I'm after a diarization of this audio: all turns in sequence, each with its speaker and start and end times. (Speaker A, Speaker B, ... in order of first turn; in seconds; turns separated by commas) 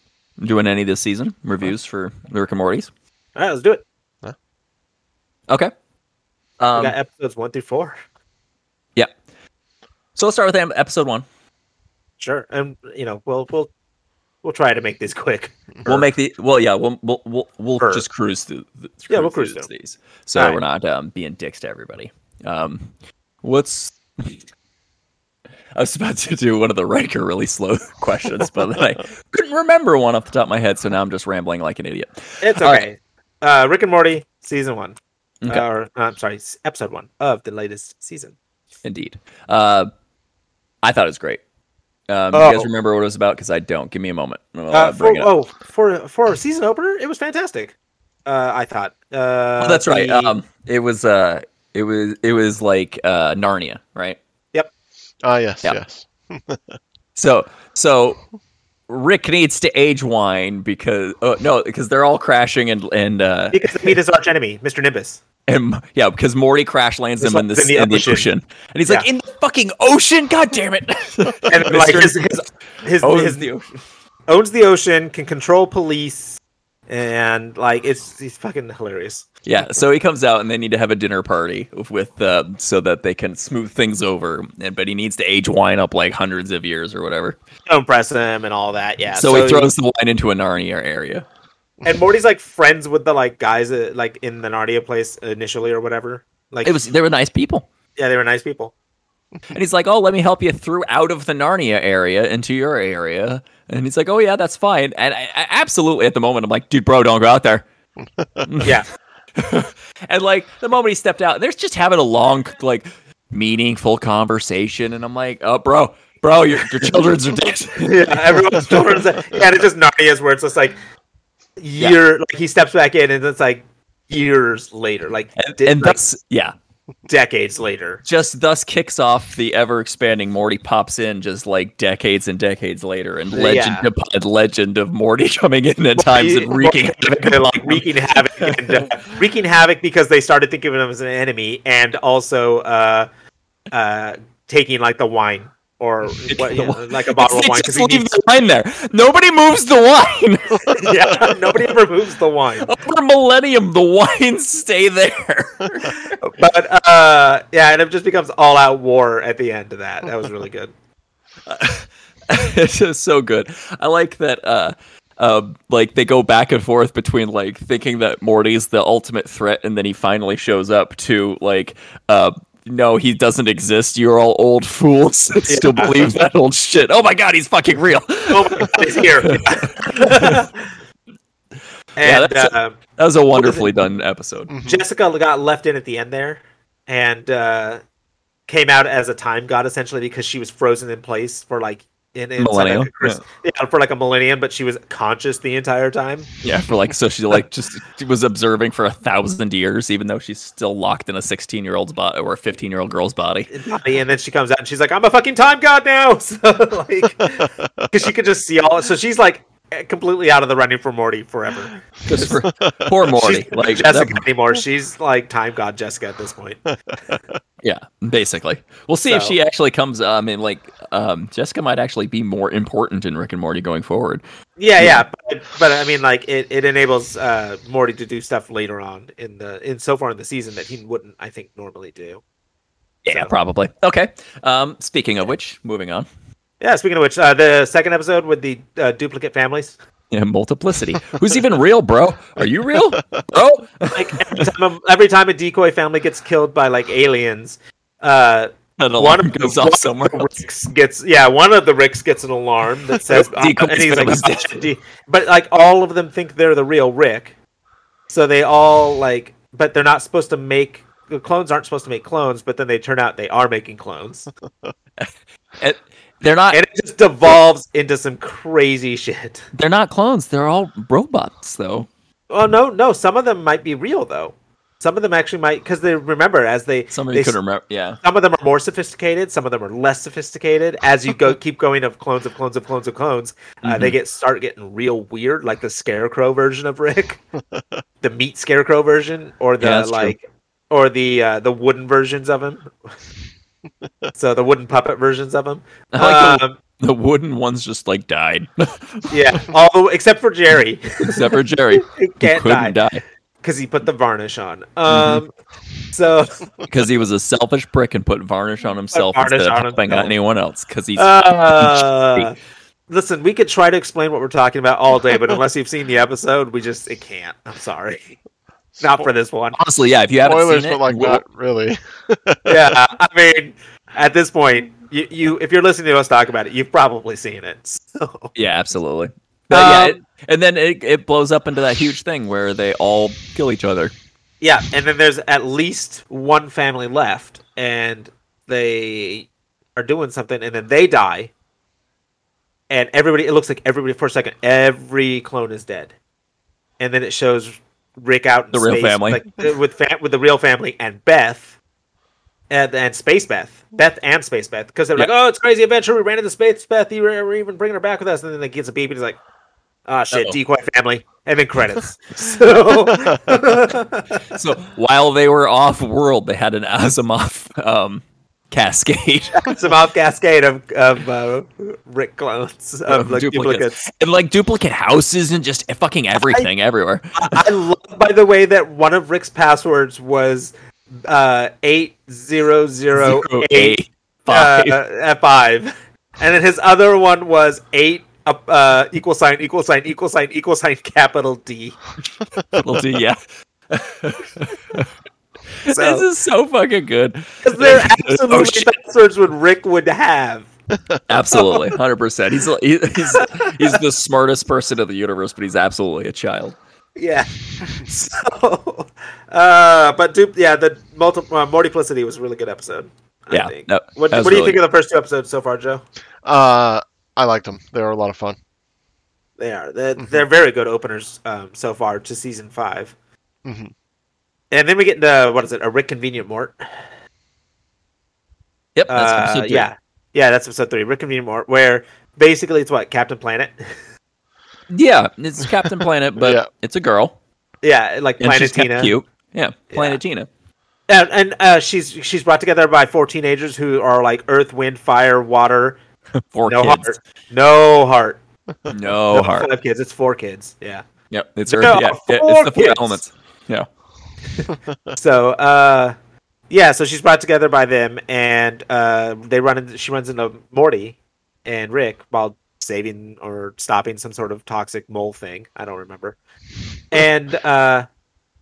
Speaker A: 0.4-2.9, Speaker B: 3.4-3.8, Speaker A: 6.6-7.0, Speaker B: 6.8-8.0, Speaker A: 10.2-11.3, Speaker B: 12.2-13.7, Speaker B: 14.4-16.1, Speaker A: 15.8-22.9, Speaker B: 17.8-18.1, Speaker B: 19.1-19.7, Speaker B: 20.4-20.6, Speaker A: 23.4-24.4, Speaker A: 25.8-32.9, Speaker B: 32.4-35.0, Speaker B: 35.5-38.4, Speaker A: 38.8-39.9, Speaker A: 40.8-41.4, Speaker A: 42.1-45.3, Speaker B: 42.3-42.7, Speaker B: 44.7-47.8, Speaker B: 48.3-50.3, Speaker A: 49.6-54.2, Speaker C: 55.2-56.7, Speaker A: 57.2-58.2, Speaker A: 58.9-64.0, Speaker B: 63.5-65.2, Speaker A: 65.5-72.5, Speaker B: 67.2-68.3, Speaker B: 71.4-73.5, Speaker A: 73.0-73.7, Speaker B: 74.3-79.3, Speaker A: 79.5-87.4, Speaker B: 87.7-89.7, Speaker A: 89.1-91.3, Speaker B: 91.8-96.8, Speaker A: 96.6-97.7, Speaker B: 98.0-98.7, Speaker A: 99.5-107.7, Speaker C: 108.0-108.5, Speaker A: 108.5-108.8, Speaker B: 108.6-108.9, Speaker A: 109.4-118.2, Speaker B: 117.8-120.8, Speaker B: 121.6-126.0, Speaker A: 125.4-126.5, Speaker B: 127.1-128.0, Speaker A: 128.1-138.9, Speaker B: 133.3-133.9, Speaker B: 136.0-143.1, Speaker B: 143.7-148.1, Speaker A: 146.3-150.9, Speaker B: 150.7-152.8, Speaker A: 152.6-156.2, Speaker B: 156.2-160.7, Speaker A: 161.5-180.4, Speaker B: 175.5-176.1, Speaker B: 178.3-180.7, Speaker B: 182.0-182.8, Speaker A: 182.0-184.5, Speaker B: 183.3-183.7, Speaker C: 184.5-184.8, Speaker B: 184.6-187.8, Speaker B: 188.5-196.3, Speaker A: 192.4-193.2, Speaker A: 196.4-203.5, Speaker B: 203.5-212.4, Speaker C: 207.6-207.9, Speaker A: 212.1-214.2, Speaker B: 213.0-217.2, Speaker A: 217.6-224.2, Speaker B: 219.1-219.4, Speaker B: 224.6-232.2, Speaker A: 233.0-236.1, Speaker B: 236.6-239.8, Speaker A: 240.1-244.5, Speaker B: 243.9-257.3, Speaker A: 248.8-250.3, Speaker A: 253.1-254.6, Speaker B: 258.1-264.3, Speaker A: 265.0-266.6, Speaker B: 266.5-269.5, Speaker A: 269.5-271.9, Speaker B: 272.3-277.4, Speaker A: 276.9-278.0, Speaker B: 278.0-287.2, Speaker A: 283.6-283.9, Speaker B: 288.0-292.9, Speaker A: 289.6-290.1, Speaker B: 294.1-296.6, Speaker A: 295.9-299.4, Speaker B: 299.1-302.8, Speaker A: 301.0-303.0, Speaker B: 303.4-305.3, Speaker A: 304.9-305.2, Speaker B: 305.9-306.4, Speaker A: 306.7-312.3, Speaker B: 308.9-310.1, Speaker B: 311.0-312.4, Speaker B: 312.9-318.2, Speaker B: 318.8-319.6, Speaker A: 319.6-321.2, Speaker C: 320.2-322.8, Speaker B: 322.5-328.3, Speaker A: 328.4-333.9, Speaker B: 329.5-330.0, Speaker B: 334.4-341.3, Speaker B: 342.7-345.9, Speaker B: 346.8-351.6, Speaker A: 348.5-349.2, Speaker B: 352.5-359.2, Speaker B: 359.9-364.2, Speaker A: 360.1-360.4, Speaker A: 364.3-369.5, Speaker B: 369.4-373.9, Speaker A: 372.9-377.4, Speaker B: 377.1-383.8, Speaker A: 383.0-384.8, Speaker B: 384.3-391.8, Speaker A: 392.6-394.9, Speaker A: 395.6-398.7, Speaker B: 395.7-396.0, Speaker B: 397.4-400.5, Speaker A: 401.1-406.6, Speaker B: 403.0-403.8, Speaker B: 407.0-415.8, Speaker A: 413.3-414.6, Speaker C: 416.2-418.4, Speaker B: 419.4-422.9, Speaker C: 423.4-423.7, Speaker B: 424.5-426.6, Speaker A: 428.8-429.7, Speaker B: 428.9-433.7, Speaker A: 434.7-437.2, Speaker C: 436.2-436.5, Speaker B: 437.6-438.9, Speaker A: 438.2-440.3, Speaker B: 439.7-440.0, Speaker B: 440.9-445.8, Speaker A: 446.3-446.9, Speaker B: 446.5-448.2, Speaker A: 448.7-449.5, Speaker B: 449.1-450.9, Speaker A: 451.1-453.7, Speaker B: 451.5-453.0, Speaker B: 454.4-455.9, Speaker B: 456.5-466.2, Speaker B: 466.9-467.9